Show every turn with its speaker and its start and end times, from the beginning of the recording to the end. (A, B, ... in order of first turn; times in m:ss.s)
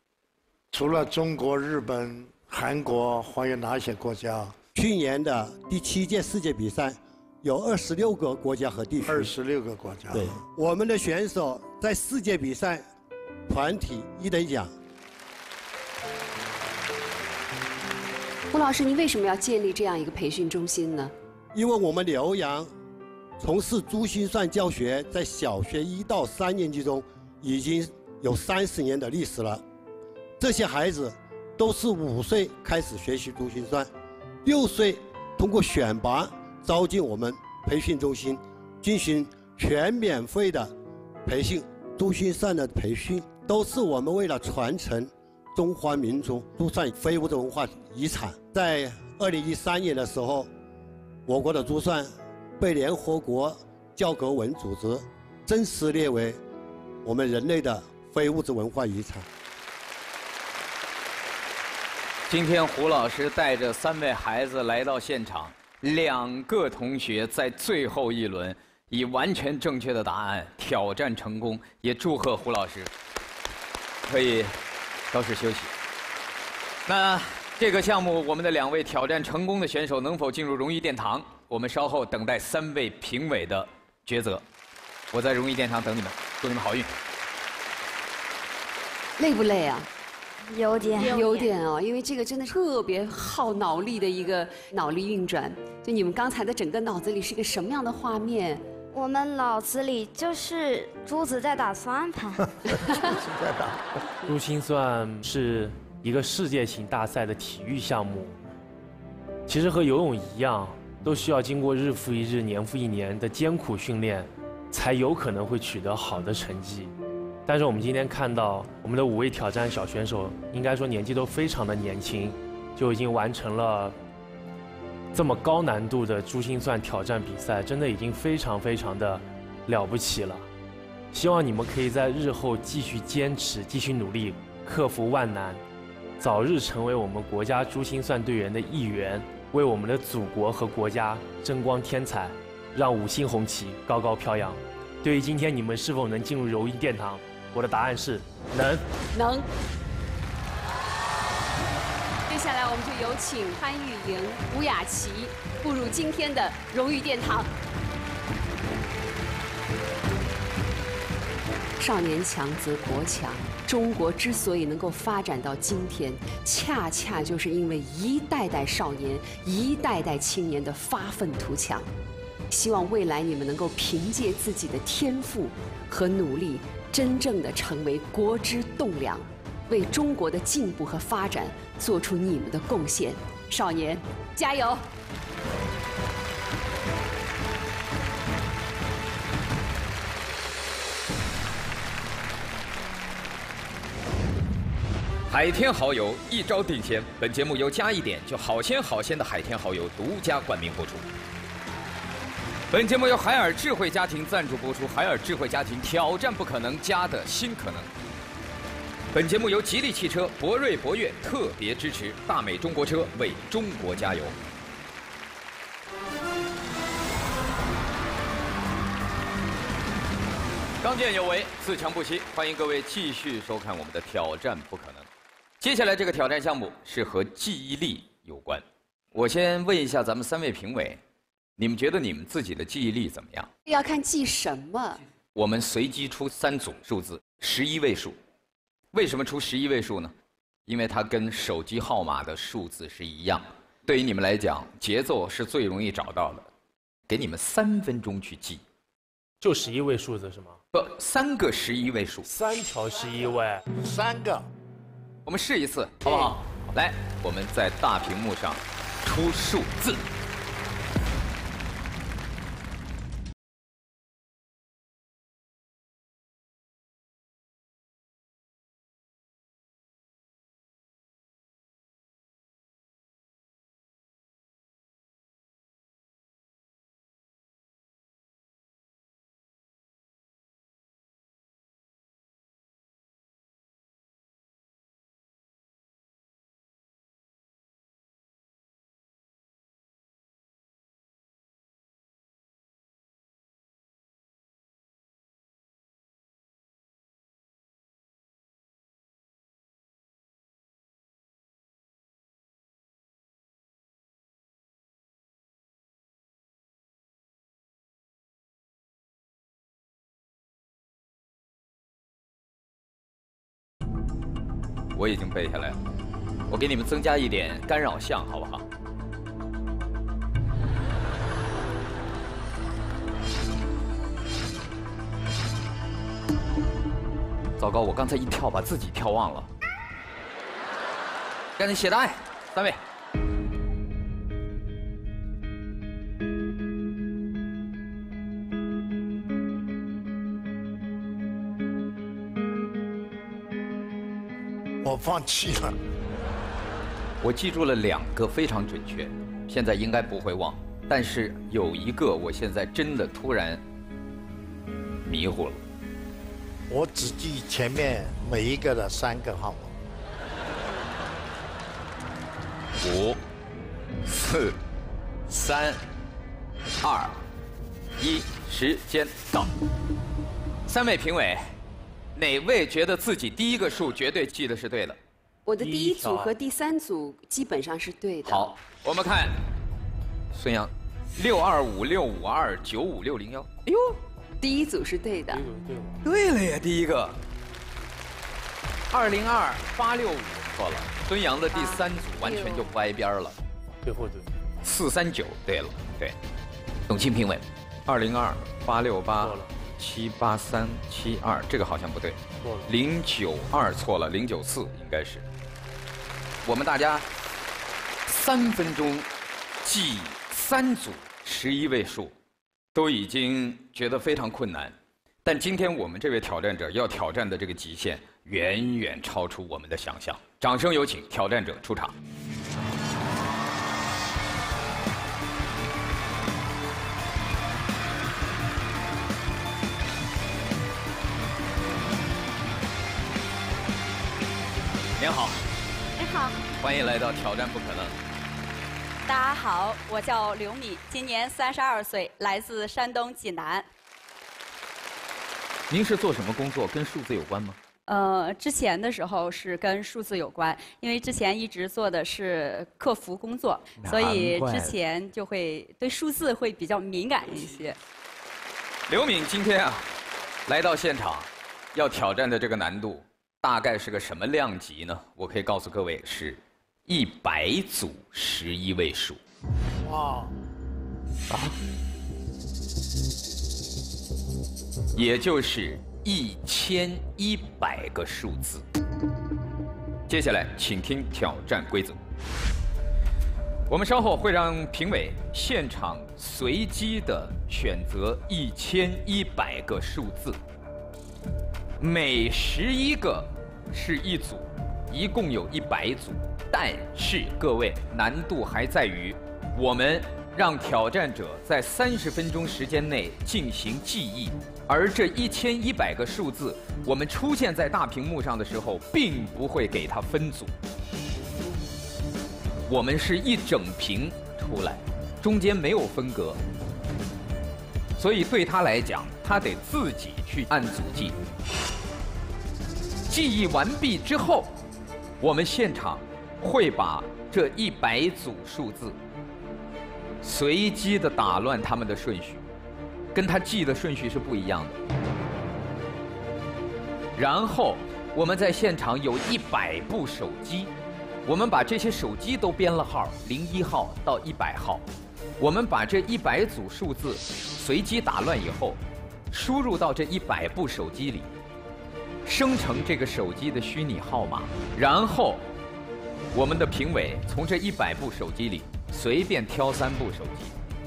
0:00.7-0:04.6 A
0:04.7-0:09.3 B
0:09.0-0:10.4 A
0:10.1-0:12.9 B
0:13.5-0:14.7 B
0:18.5-0:21.1 C
0:21.5-0:22.7 B
0:23.4-0:29.6 B
0:30.4-0:33.9 B
0:34.4-0:40.7 B
0:41.3-0:50.5 B
0:51.3-0:56.4 B
0:57.0-0:59.3 B
1:02.3-1:12.9 D
1:14.1-1:14.6 D
1:15.1-1:15.7 D
1:16.9-1:24.4 D
1:25.1-1:26.9 D
1:29.2-1:29.9 C
1:30.5-1:31.5 E
1:31.0-1:38.6 C
1:38.9-1:42.4 E
1:42.7-1:43.8 A
1:44.3-1:48.4 F
1:49.5-1:56.9 F
1:57.5-2:04.0 F
2:05.1-2:10.5 F
2:11.1-2:15.6 F
2:16.2-2:28.8 F
2:29.1-2:29.5 C
2:32.3-2:37.5 C
2:41.8-2:51.9 C
2:52.5-3:04.8 C
3:15.3-3:21.1 D
3:22.7-3:27.9 D
3:29.1-3:34.4 D
3:40.8-3:45.1 D
3:45.6-3:51.0 D
3:51.6-3:53.5 D
3:53.7-3:55.0 C
3:55.4-3:58.2 D
3:58.9-4:00.1 D
4:00.7-4:06.5 D
4:07.1-4:08.6 D
4:09.4-4:10.6 F
4:10.7-4:12.3 D
4:12.3-4:13.6 F
4:13.8-4:14.5 A
4:15.3-4:20.0 D
5:15.0-5:15.8 D
5:16.5-5:18.6 D
5:27.6-5:29.5 D
5:31.6-5:32.8 D
5:44.8-5:45.8 A
5:47.2-5:53.6 D
5:55.0-5:55.6 D
5:56.7-5:59.7 A
6:02.8-6:03.2 D
6:04.1-6:04.6 D
6:05.3-6:05.8 D
6:06.8-6:07.2 D
6:08.0-6:09.5 D
6:10.7-6:11.5 D
6:12.2-6:15.0 D
6:15.5-6:18.5 C
6:15.6-6:16.3 F
6:18.3-6:19.4 D
6:20.3-6:23.6 D
6:24.4-6:25.4 C
6:25.3-6:26.0 F
6:26.0-6:27.2 D
6:28.9-6:33.4 D
6:31.5-6:32.5 G
6:33.8-6:34.3 F
6:34.6-6:36.2 D
6:36.9-6:45.3 D
6:39.2-6:39.5 F
6:42.4-6:42.7 F
6:46.4-6:47.1 D
6:48.1-6:49.1 D
6:49.6-6:52.1 D
6:52.7-7:02.0 D
7:15.0-7:15.4 D
7:16.0-7:16.4 G
7:16.6-7:18.0 D
7:19.1-7:23.7 G
7:25.7-7:27.6 D
7:27.9-7:37.8 G
7:33.8-7:34.7 D
7:38.9-7:39.9 D
7:40.5-7:49.2 D
7:49.8-7:50.3 A
7:54.9-7:58.6 D
8:00.1-8:02.0 D
8:03.7-8:10.4 D
8:11.8-8:30.5 D
8:32.7-8:36.4 D
8:38.0-8:41.2 D
8:43.1-8:44.6 D
8:45.2-8:49.0 D
8:50.2-8:52.5 D
8:53.1-8:54.8 D
8:57.2-9:00.7 D
9:01.2-9:04.8 D
9:05.4-9:08.8 D
9:09.3-9:11.3 D
9:12.3-9:15.5 D
9:16.3-9:20.5 D